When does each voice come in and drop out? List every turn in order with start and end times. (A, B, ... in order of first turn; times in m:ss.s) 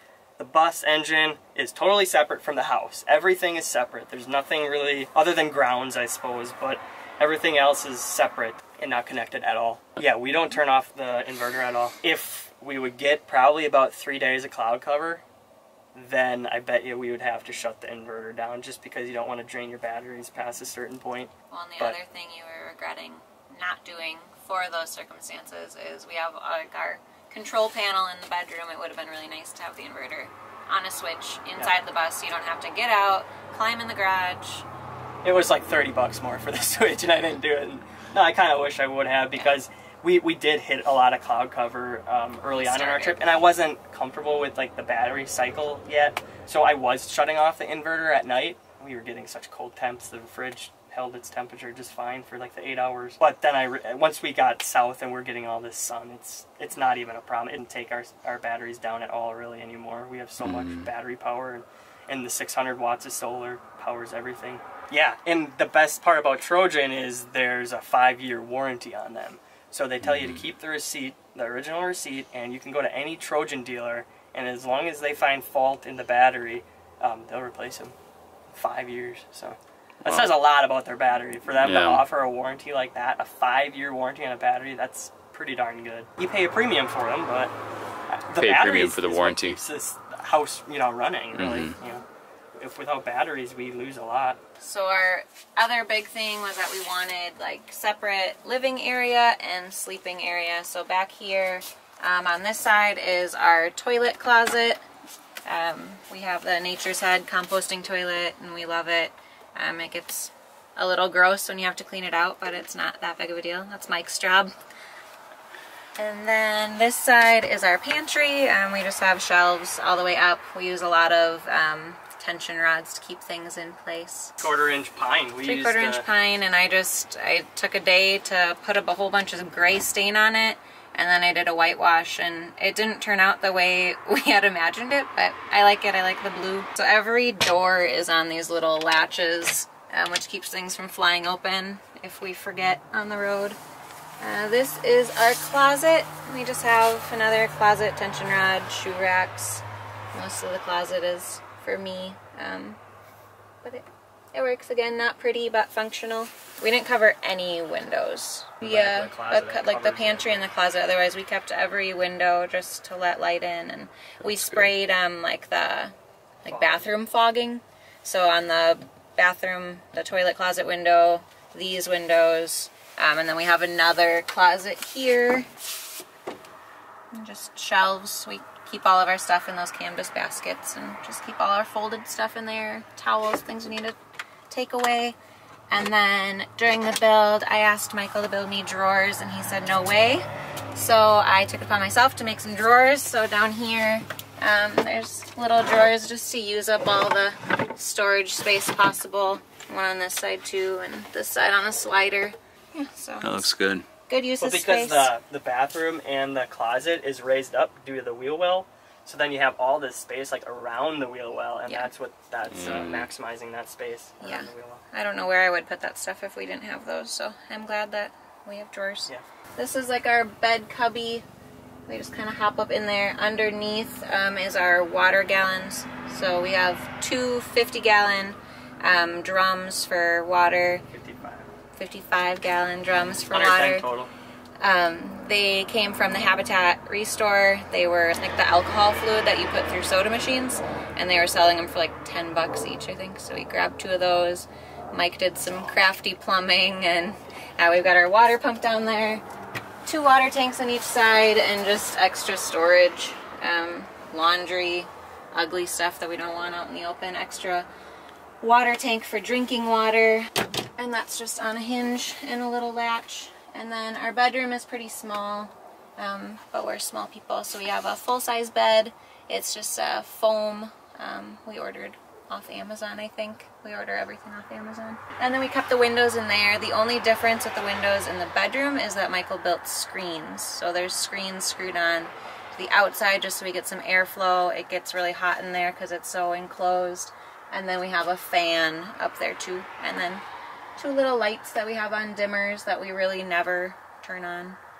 0:00.4-0:15.2 A
0:15.9-0:22.0 A
0:21.5-0:34.6 B
0:35.2-1:17.9 A
0:42.5-0:43.4 B
1:00.6-1:00.8 C
1:18.5-1:27.5 A
1:21.6-1:22.0 C
1:28.1-1:31.9 A
1:28.3-1:29.6 C
1:31.4-1:31.7 C
1:31.8-1:32.0 B
1:32.6-1:34.4 A
1:34.6-1:44.8 B
1:45.4-1:54.5 B
1:56.0-2:04.3 B
2:04.4-2:06.0 A
2:05.4-2:23.6 B
2:24.2-2:32.8 B
2:33.6-2:55.5 B
2:38.6-2:40.5 A
2:46.5-2:46.9 A
2:57.1-3:03.9 B
3:04.5-3:05.2 B
3:05.7-3:23.5 B
3:23.2-3:23.8 C
3:24.1-3:25.1 B
3:24.4-3:34.8 A
3:32.6-3:33.1 C
3:34.2-3:41.2 B
3:41.9-3:50.8 B
3:50.9-3:51.5 A
3:51.8-3:53.9 B
3:53.3-3:54.1 A
3:54.6-4:09.2 B
4:09.8-4:17.7 B
4:18.4-4:50.2 B
4:50.8-4:54.6 B